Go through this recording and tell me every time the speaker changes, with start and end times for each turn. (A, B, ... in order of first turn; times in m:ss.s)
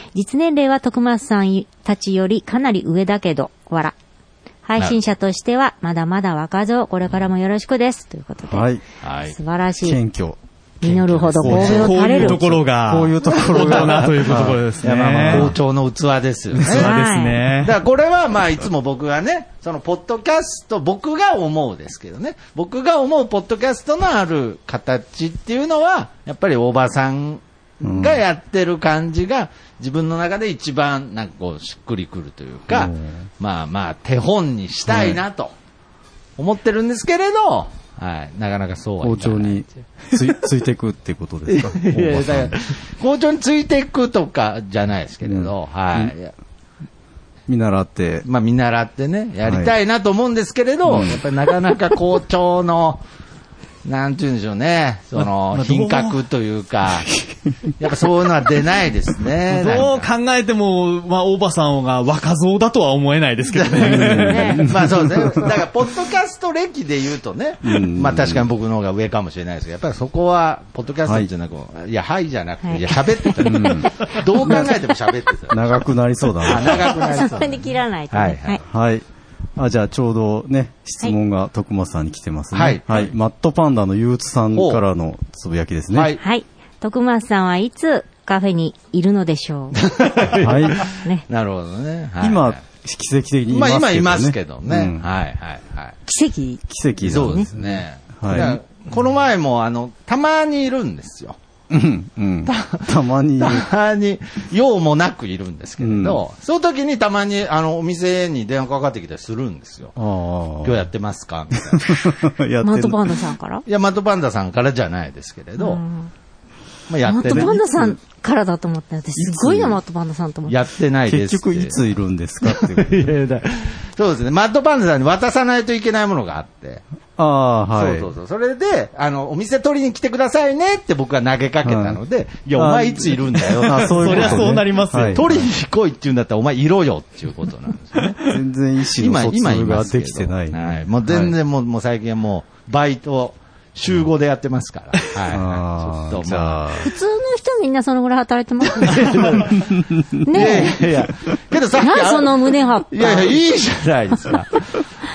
0:00.1-0:03.9 A
0:04.6-0:08.7 A
0:08.4-0:08.8 B
0:09.0-0:09.4 C
0:09.3-0:10.0 A
0:09.8-0:15.6 B
0:10.8-0:12.4 A
0:10.9-0:11.9 C
0:11.4-0:15.5 D
0:13.5-0:14.4 C
0:15.2-0:16.9 C
0:16.6-0:17.8 D
0:16.7-0:17.4 A
0:17.6-0:35.5 C
0:27.8-0:28.2 B
0:32.7-0:33.3 B
0:34.9-0:35.2 B
0:36.4-0:39.6 C
0:39.0-0:42.6 B
0:41.5-0:46.3 C
0:45.2-0:46.1 B
0:47.5-0:48.3 B
0:48.2-0:53.0 C
0:49.4-0:49.7 B
0:50.9-0:51.2 B
0:53.8-0:57.1 C
0:55.2-0:56.2 D
0:57.8-1:00.1 C
0:59.5-1:04.6 D
1:03.5-1:15.8 C
1:03.8-1:05.6 B
1:04.2-1:04.7 A
1:07.6-1:08.5 B
1:11.0-1:11.3 B
1:12.6-1:14.7 A
1:13.4-1:14.7 B
1:15.5-1:16.9 B
1:16.4-1:17.6 C
1:17.0-1:18.6 A
1:18.1-1:18.6 C
1:18.7-1:19.0 B
1:19.6-1:26.2 B
1:22.5-1:23.1 C
1:24.6-1:24.8 C
1:25.9-1:26.2 C
1:26.2-1:29.8 A
1:29.8-1:32.6 C
1:30.4-1:30.9 B
1:30.9-1:31.2 A
1:32.2-1:35.0 B
1:33.5-1:36.0 C
1:36.1-1:36.6 A
1:36.7-1:38.6 B
1:37.0-1:41.4 C
1:41.7-1:43.7 B
1:42.5-1:50.0 C
1:45.8-1:46.2 B
1:50.0-1:50.9 B
1:50.6-1:52.1 C
1:51.6-1:53.3 B
1:52.6-1:53.6 A
1:53.7-1:55.8 C
1:55.6-1:56.1 A
1:56.9-1:58.0 C
1:57.0-2:00.6 A
1:59.2-1:59.8 C
2:00.5-2:01.9 C
2:01.1-2:03.1 B
2:02.4-2:06.8 C
2:07.2-2:08.1 B
2:07.8-2:18.2 C
2:11.6-2:12.0 B
2:12.5-2:15.5 B
2:13.6-2:15.3 D
2:18.3-2:21.4 B
2:19.0-2:26.7 C
2:25.3-2:26.9 B
2:26.8-2:29.0 A
2:28.7-2:29.7 C
2:29.5-2:30.7 B
2:30.2-2:30.8 A
2:30.3-2:34.8 C
2:31.8-2:33.4 A